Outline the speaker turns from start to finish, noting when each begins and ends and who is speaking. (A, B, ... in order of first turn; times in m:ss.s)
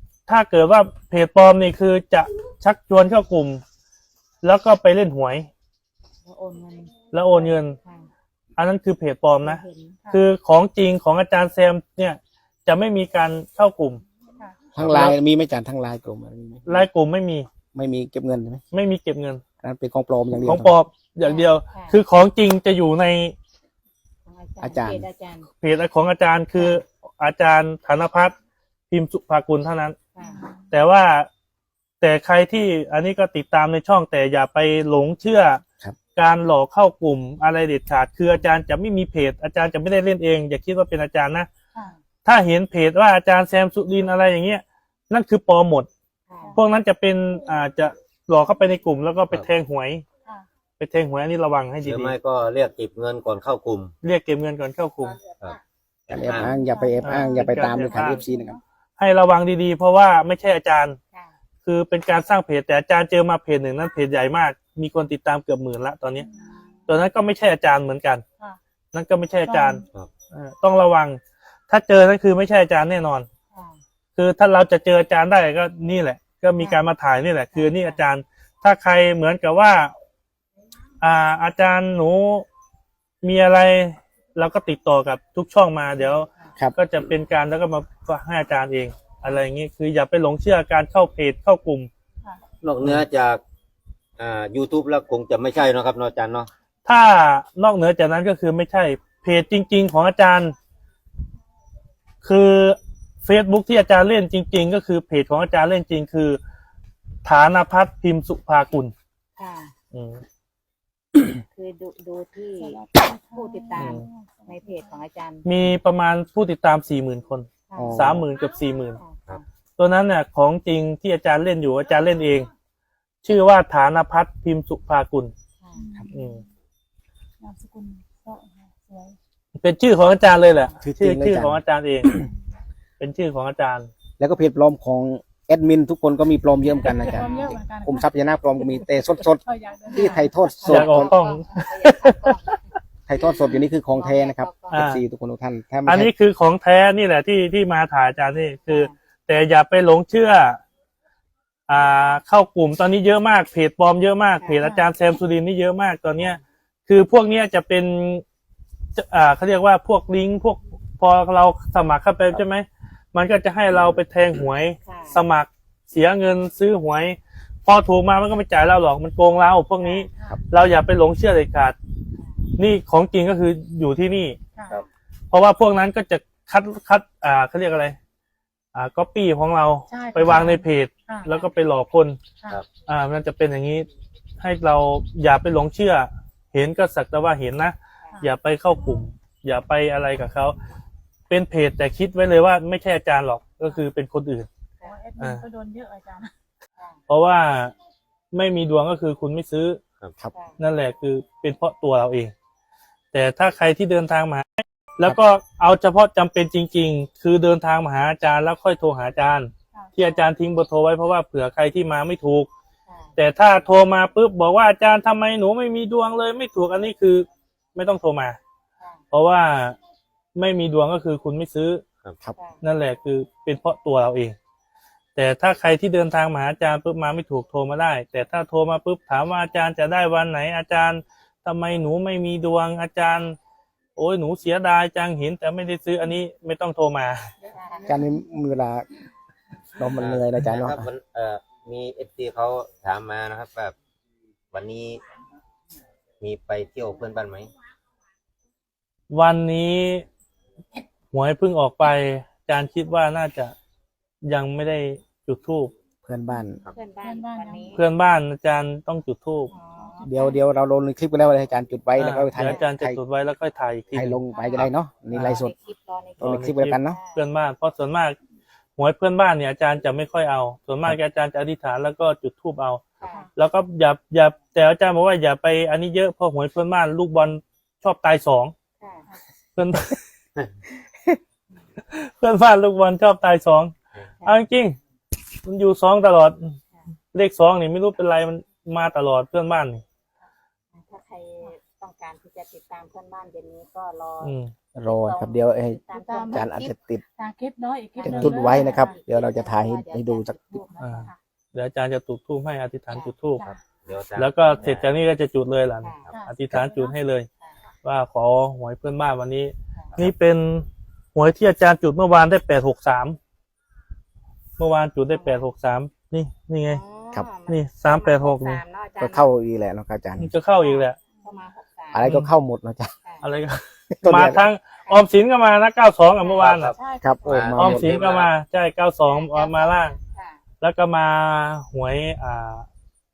0:00.3-0:03.6 A
0:04.4-0:05.5 A
0:06.2-0:08.1 B
0:07.1-0:07.8 A
0:08.6-0:14.0 A
0:09.4-0:10.0 B
0:14.7-0:16.9 C
0:14.8-0:15.2 A
0:16.6-0:17.5 A
0:17.7-0:18.6 C
0:18.7-0:19.4 A
0:19.6-0:20.7 C
0:20.4-0:23.4 A
0:21.2-0:22.0 B
0:24.2-0:25.5 B
0:24.6-0:25.1 C
0:25.6-0:28.4 A
0:26.6-0:26.8 B
0:28.9-0:30.0 A
0:30.1-0:30.4 B
0:30.2-0:30.7 D
0:30.7-0:31.3 A
0:32.0-0:35.6 A
0:36.2-0:41.5 A
0:42.2-0:45.9 A
0:46.3-0:46.6 B
0:46.6-0:50.0 A
0:50.8-0:52.1 A
0:51.8-0:53.9 E
0:54.0-0:55.2 A
0:55.4-0:56.5 E
0:56.1-0:58.6 C
0:56.4-0:58.6 D
0:57.0-0:58.2 A
0:57.5-0:58.2 B
0:59.0-1:01.0 A
1:01.6-1:06.3 A
1:06.2-1:06.5 D
1:06.3-1:06.9 B
1:06.9-1:08.2 A
1:08.9-1:13.3 A
1:09.4-1:09.9 D
1:13.5-1:13.8 B
1:14.2-1:19.9 A
1:17.5-1:18.0 B
1:21.0-1:22.4 A
1:23.2-1:31.9 A
1:32.6-1:33.4 E
1:34.2-1:36.5 E
1:36.9-1:40.6 A
1:42.2-1:46.4 A
1:47.2-1:48.9 A
1:49.4-1:49.7 B
1:49.9-1:50.2 A
1:51.5-1:55.7 B
1:52.6-1:55.0 D
1:53.8-1:54.0 A
1:55.4-1:59.0 A
1:57.7-1:58.2 B
1:57.7-1:58.2 C
1:59.0-1:59.4 B
1:59.8-2:02.5 A
2:03.2-2:05.3 A
2:05.6-2:05.9 B
2:05.7-2:06.4 D
2:06.1-2:06.4 A
2:07.4-2:09.2 D
2:09.6-2:12.1 A
2:10.8-2:12.3 C
2:13.0-2:13.9 A
2:14.2-2:21.1 C
2:16.7-2:17.6 B
2:16.8-2:18.1 D
2:19.4-2:20.3 D
2:19.9-2:24.9 B
2:20.6-2:22.6 A
2:23.1-2:26.1 C
2:24.7-2:25.0 A
2:25.8-2:30.6 A
2:28.7-2:28.9 B
2:31.7-2:38.2 A
2:34.6-2:34.9 D
2:39.0-2:51.8 A
2:44.8-2:45.2 B
2:49.8-2:50.4 D
2:52.2-2:52.5 B
2:52.6-2:54.4 A
2:54.6-2:54.8 D
2:55.3-2:58.0 A
2:58.7-3:02.2 A
2:59.9-3:01.4 D
3:02.9-3:10.6 A
3:08.0-3:08.3 B
3:11.3-3:14.5 A
3:14.8-3:16.3 D
3:15.2-3:15.4 A
3:17.1-3:17.7 A
3:18.3-3:19.8 A
3:20.3-3:20.6 B
3:20.6-3:22.3 A
3:23.1-3:32.5 A
3:30.0-3:30.3 B
3:32.9-3:33.1 B
3:33.2-3:38.4 A
3:38.8-3:39.0 B
3:39.1-3:39.8 A
3:40.4-3:41.8 A
3:42.4-3:42.6 B
3:42.6-3:44.4 A
3:45.2-3:53.4 A
3:54.0-3:57.3 A
3:57.4-3:58.0 B
3:57.8-3:58.9 C
3:59.8-4:00.9 C
4:00.0-4:03.7 E
4:04.5-4:05.0 E
4:06.2-4:07.5 E
4:09.1-4:10.1 A
4:11.1-4:13.6 A
4:14.2-4:15.7 A
4:16.0-4:16.6 C
4:16.6-4:17.8 B
4:17.0-4:17.8 D
4:17.7-4:19.5 A
4:19.5-4:20.1 B
4:19.8-4:20.4 D
4:20.0-4:23.0 C
4:22.0-4:24.2 A
4:23.9-4:25.5 C
4:24.3-4:27.2 B
4:25.1-4:25.4 A
4:26.2-4:27.0 C
4:26.2-4:28.2 A
4:28.8-4:32.8 A
4:33.0-4:33.3 B
4:33.0-4:33.3 D
4:33.4-4:38.5 A
4:38.8-4:39.1 B
4:39.6-4:40.0 A
4:41.8-4:44.8 A
4:45.4-4:46.6 A
4:47.1-4:49.8 A
4:50.7-4:56.7 B
4:54.2-4:54.5 A
4:54.7-4:57.0 C
4:55.9-4:56.4 D
4:57.2-4:59.0 D
4:58.0-5:01.2 B
4:58.0-5:00.6 C
5:00.8-5:03.4 A
5:03.4-5:04.9 E
5:04.2-5:07.3 A
5:05.8-5:06.2 B
5:06.1-5:07.0 D
5:07.8-5:13.2 A
5:14.6-5:16.8 A
5:15.1-5:15.5 B
5:16.6-5:19.3 B
5:17.5-5:18.6 A
5:19.0-5:20.3 C
5:20.2-5:21.0 A
5:20.5-5:22.1 B
5:21.9-5:22.9 C
5:22.0-5:22.3 A
5:23.2-5:26.7 A
5:23.9-5:24.4 C
5:26.2-5:27.4 B
5:26.4-5:28.3 E
5:26.7-5:27.2 D
5:27.0-5:28.0 C
5:27.6-5:30.0 A
5:29.0-5:30.4 B
5:30.6-5:32.7 A